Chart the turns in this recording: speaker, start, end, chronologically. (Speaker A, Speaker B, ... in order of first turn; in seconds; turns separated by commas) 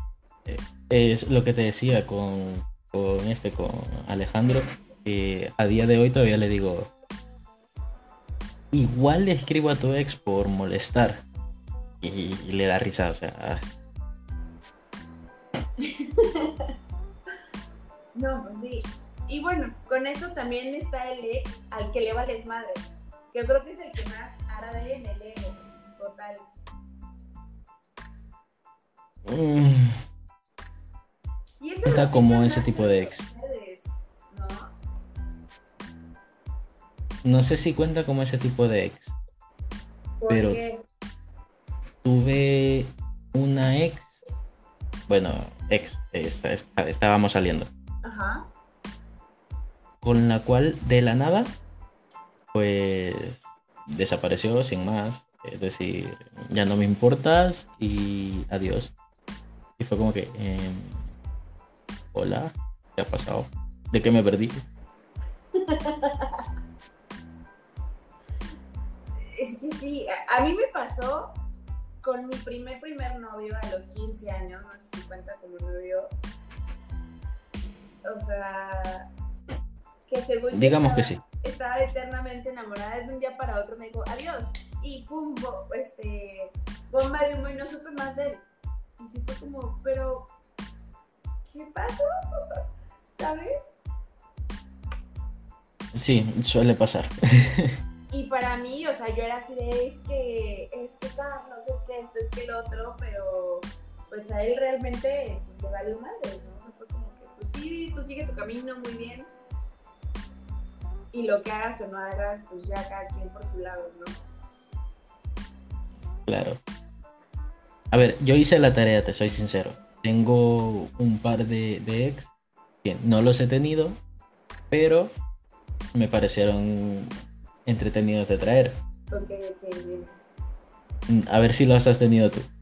Speaker A: 0.5-6.9, Speaker A: 8.7-11.2, Speaker A: 12.0-13.6, Speaker B: 15.8-16.5, Speaker B: 18.1-26.4, Speaker A: 29.2-30.0, Speaker B: 31.6-34.7, Speaker A: 31.8-33.2, Speaker A: 37.2-39.1, Speaker B: 40.2-40.8, Speaker A: 40.3-40.6, Speaker A: 42.0-44.2, Speaker A: 45.1-47.7, Speaker B: 48.0-48.5, Speaker A: 50.0-51.5, Speaker A: 52.5-58.9, Speaker A: 59.8-61.0, Speaker A: 62.1-64.6, Speaker B: 65.5-66.4, Speaker B: 69.2-71.4, Speaker B: 72.0-76.1, Speaker B: 78.0-79.1, Speaker B: 80.1-88.5, Speaker A: 80.5-81.2, Speaker B: 89.0-90.3, Speaker B: 91.5-92.6, Speaker B: 93.1-93.7, Speaker A: 95.9-97.8, Speaker B: 98.1-109.3, Speaker B: 111.1-114.2, Speaker A: 116.2-116.6, Speaker A: 117.9-122.3, Speaker A: 122.8-124.0, Speaker A: 124.7-125.1, Speaker A: 125.9-127.1, Speaker A: 127.7-128.8, Speaker B: 129.1-130.2, Speaker A: 131.1-132.5